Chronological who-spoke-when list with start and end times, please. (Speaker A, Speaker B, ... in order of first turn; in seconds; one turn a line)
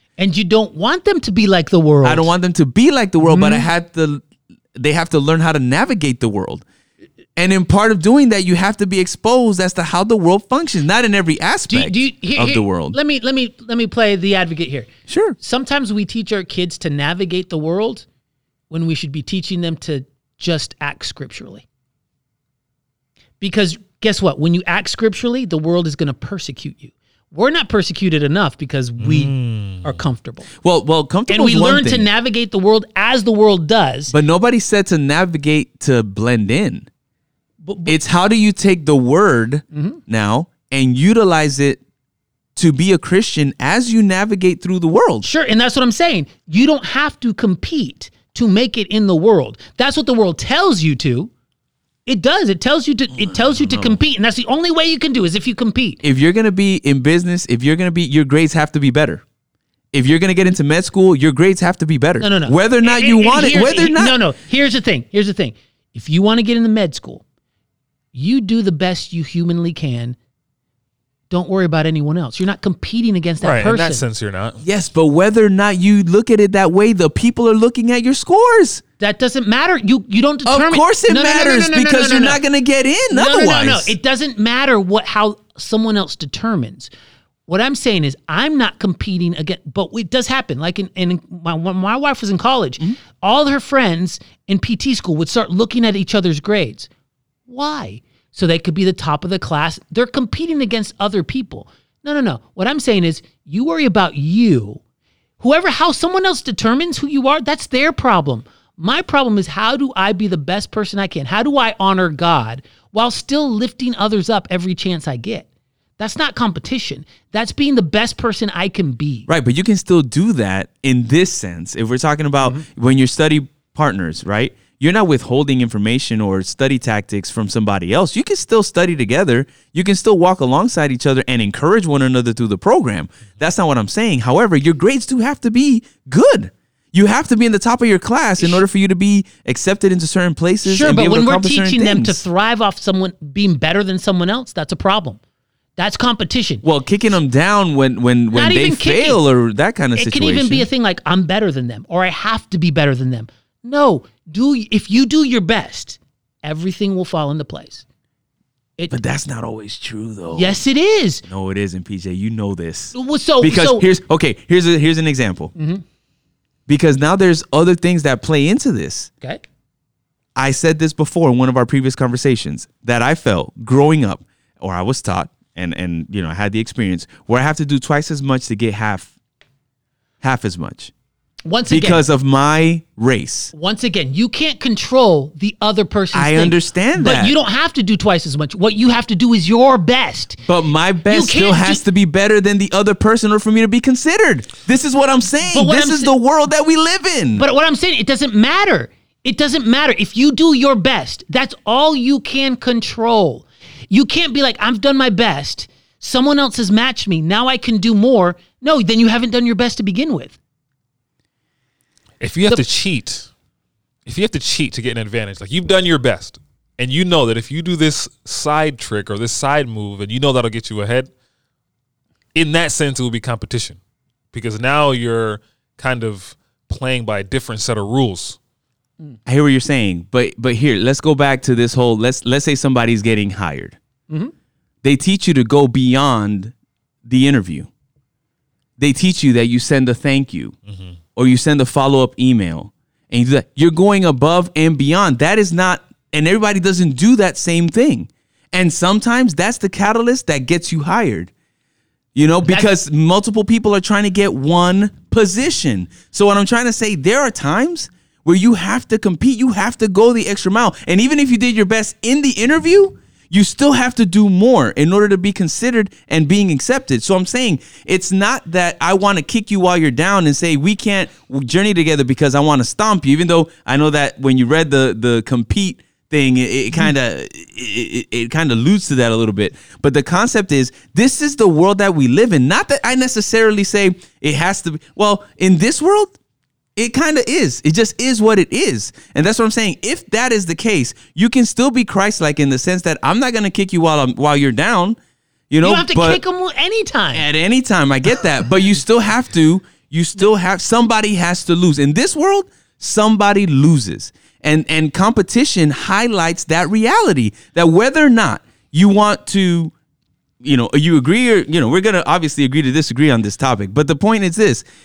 Speaker A: 0.2-2.3
Speaker B: 2.0-4.2
Speaker A: 3.2-3.7
Speaker B: 4.7-6.6
Speaker B: 7.4-13.0
Speaker A: 11.7-18.0
Speaker B: 15.1-15.3
Speaker A: 18.7-21.6
Speaker A: 23.4-30.5
Speaker C: 29.0-30.0
Speaker B: 30.6-32.1
Speaker A: 31.3-34.1
Speaker B: 34.1-36.9
Speaker A: 37.6-38.0
Speaker B: 37.9-41.8
Speaker A: 39.7-40.0
Speaker B: 42.5-45.3
Speaker A: 45.2-51.3
Speaker A: 52.0-56.0
Speaker B: 53.6-53.9
Speaker B: 56.0-59.2
Speaker B: 59.9-64.2
Speaker A: 62.2-67.2
Speaker A: 68.1-70.2
Speaker A: 71.3-74.0
Speaker C: 73.4-74.6
Speaker B: 74.6-78.8
Speaker A: 79.0-82.4
Speaker B: 80.5-83.9
Speaker A: 83.1-86.9
Speaker A: 87.5-96.9
Speaker A: 97.5-104.8
Speaker A: 105.4-115.5
Speaker A: 116.0-119.3
Speaker B: 119.3-142.2
Speaker A: 138.4-138.6
Speaker A: 140.6-145.2
Speaker A: 145.8-146.6
Speaker B: 146.6-150.7
Speaker A: 148.3-149.2
Speaker A: 149.9-157.8
Speaker B: 158.9-160.6
Speaker A: 160.3-161.2
Speaker B: 161.2-165.5
Speaker A: 162.9-163.9
Speaker A: 165.6-165.8
Speaker B: 166.7-169.1
Speaker B: 170.3-179.1
Speaker B: 180.2-180.9
Speaker A: 181.4-182.0
Speaker B: 181.7-183.5
Speaker A: 183.5-190.4
Speaker B: 186.1-187.3
Speaker B: 190.4-197.4
Speaker A: 191.1-191.8
Speaker A: 195.5-196.1
Speaker A: 197.3-210.4
Speaker C: 212.2-213.3
Speaker C: 214.1-221.1
Speaker C: 222.3-223.8
Speaker C: 224.3-228.4
Speaker B: 229.2-233.8
Speaker B: 234.8-236.5
Speaker B: 237.1-237.7
Speaker B: 238.8-240.6
Speaker B: 241.1-251.3
Speaker B: 252.1-286.1
Speaker B: 286.8-295.0
Speaker B: 295.5-296.2
Speaker A: 295.6-297.2
Speaker B: 297.1-309.7
Speaker B: 310.4-314.6